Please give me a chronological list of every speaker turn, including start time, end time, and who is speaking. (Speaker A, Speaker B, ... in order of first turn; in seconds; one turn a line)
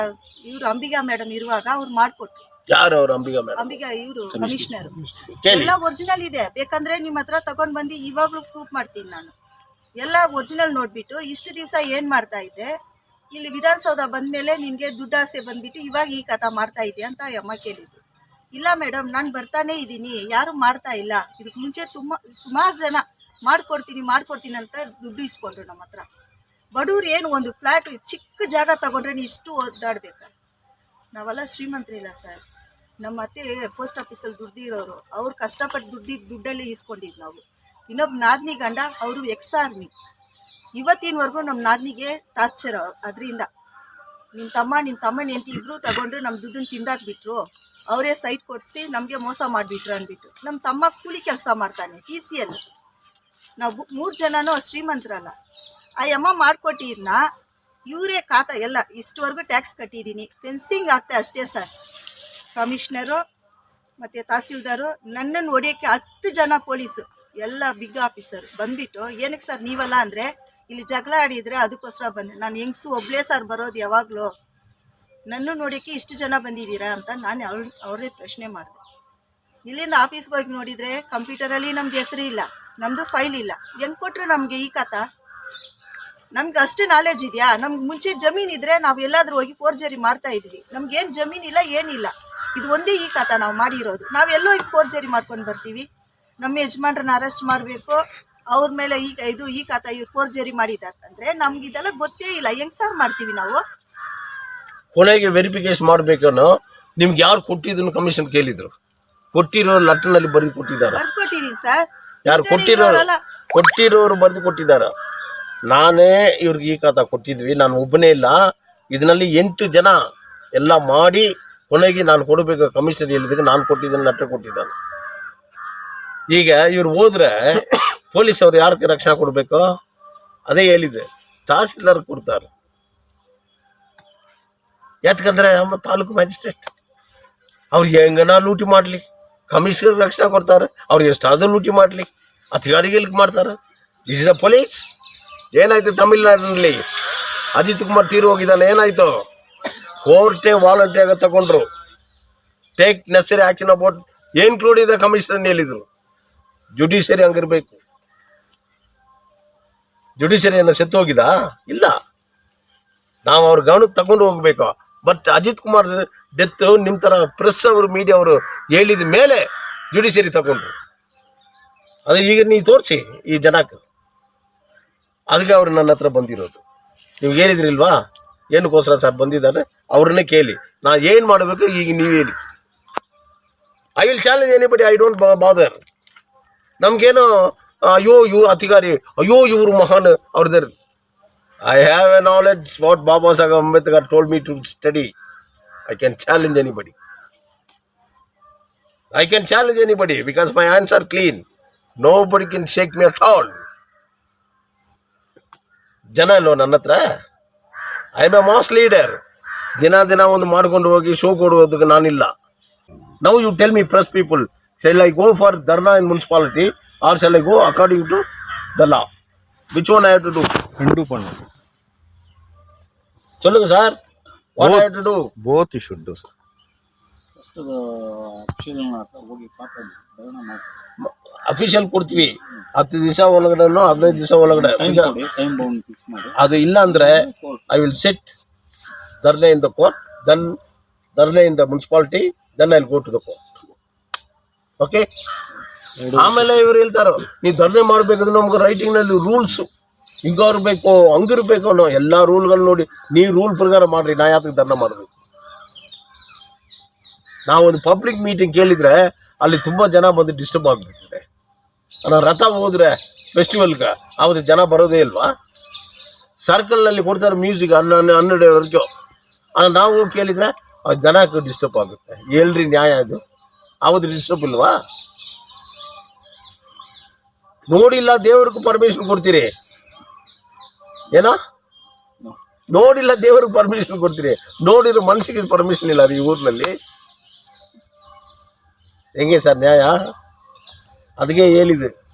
Speaker A: 0.5-2.4
Speaker B: 2.7-3.8
Speaker A: 3.5-9.3
Speaker C: 4.4-4.7
Speaker B: 5.3-5.7
Speaker A: 10.0-12.7
Speaker A: 13.3-18.0
Speaker A: 18.6-26.0
Speaker A: 26.8-30.3
Speaker A: 31.1-32.4
Speaker A: 33.0-39.9
Speaker A: 40.8-43.5
Speaker A: 44.4-52.6
Speaker A: 53.6-55.3
Speaker A: 56.0-57.2
Speaker A: 57.9-61.7
Speaker A: 62.5-63.2
Speaker A: 64.0-74.3
Speaker A: 75.3-78.8
Speaker A: 79.7-85.0
Speaker A: 86.3-95.9
Speaker A: 96.4-98.0
Speaker A: 98.5-103.6
Speaker B: 104.9-108.7
Speaker B: 109.3-111.0
Speaker A: 110.9-113.2
Speaker B: 112.2-114.9
Speaker B: 115.7-118.4
Speaker B: 118.9-120.0
Speaker B: 120.6-124.7
Speaker B: 126.3-129.7
Speaker B: 130.5-132.5
Speaker B: 135.0-136.7
Speaker B: 137.7-144.9
Speaker B: 145.5-146.8
Speaker B: 147.6-149.1
Speaker B: 150.0-151.7
Speaker B: 152.8-155.8
Speaker B: 156.8-157.8
Speaker B: 160.2-161.9
Speaker B: 163.2-170.7
Speaker B: 172.1-173.8
Speaker B: 175.3-176.6
Speaker B: 177.2-178.0
Speaker B: 178.5-182.3
Speaker B: 184.0-185.8
Speaker B: 186.8-190.7
Speaker B: 191.6-195.1
Speaker B: 195.9-196.9
Speaker B: 199.1-201.4
Speaker B: 202.0-203.6
Speaker B: 206.2-207.0
Speaker B: 208.2-209.2
Speaker B: 209.8-212.3
Speaker B: 213.2-218.2
Speaker B: 218.8-219.1
Speaker B: 219.7-220.5
Speaker C: 220.8-221.4
Speaker B: 223.4-224.0
Speaker B: 224.6-225.3
Speaker C: 224.6-224.9
Speaker C: 225.4-226.3
Speaker D: 227.4-230.7
Speaker B: 231.0-235.1
Speaker D: 234.5-237.6
Speaker B: 236.4-238.3
Speaker B: 239.2-240.6
Speaker B: 241.2-243.4
Speaker B: 244.8-245.1
Speaker B: 246.1-249.7
Speaker B: 250.2-255.1
Speaker B: 257.5-261.2
Speaker B: 262.0-265.3
Speaker B: 266.4-268.9
Speaker B: 269.6-273.2
Speaker B: 273.8-274.7
Speaker B: 277.7-279.5
Speaker B: 281.1-281.4
Speaker B: 282.7-286.7
Speaker B: 289.2-289.9
Speaker B: 291.2-291.9